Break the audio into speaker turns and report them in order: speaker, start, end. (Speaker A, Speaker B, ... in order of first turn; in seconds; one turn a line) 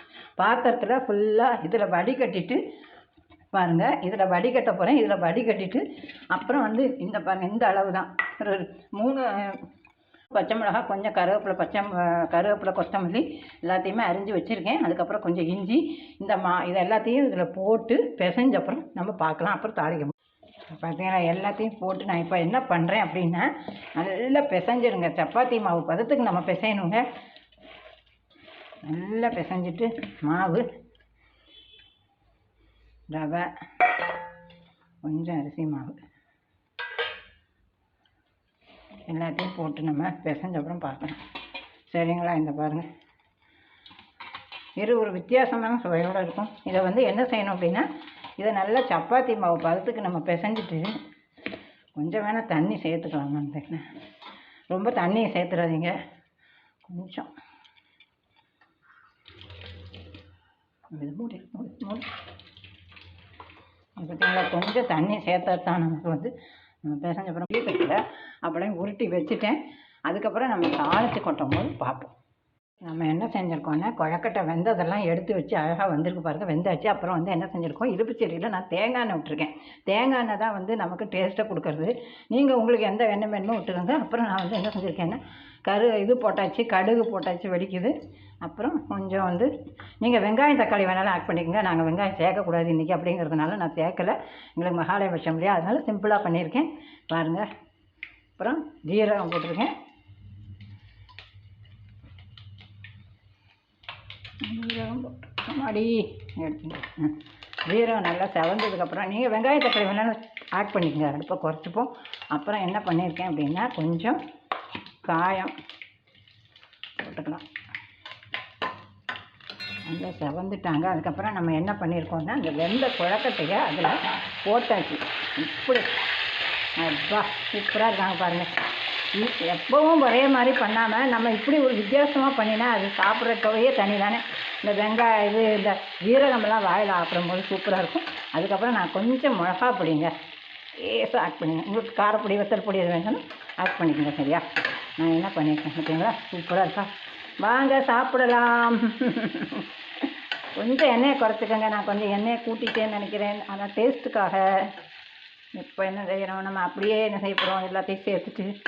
Speaker A: 0.4-2.6
Speaker A: 3.5-9.6
Speaker A: 10.3-20.1
Speaker A: 20.7-27.1
Speaker A: 28.8-30.7
Speaker A: 33.1-33.5
Speaker A: 35.0-36.0
Speaker A: 39.1-41.2
Speaker A: 41.9-42.9
Speaker A: 44.8-47.9
Speaker A: 48.4-50.9
Speaker A: 52.0-53.9
Speaker A: 54.7-55.9
Speaker A: 56.9-57.3
Speaker A: 60.9-62.1
Speaker A: 64.0-72.1
Speaker A: 72.8-89.5
Speaker A: 90.0-97.5
Speaker A: 98.4-99.7
Speaker A: 104.4-114.2
Speaker A: 115.0-115.5
Speaker A: 117.0-117.4
Speaker A: 119.9-125.9
Speaker A: 126.8-128.5
Speaker A: 129.1-140.1
Speaker A: 140.8-154.4
Speaker A: 155.5-158.5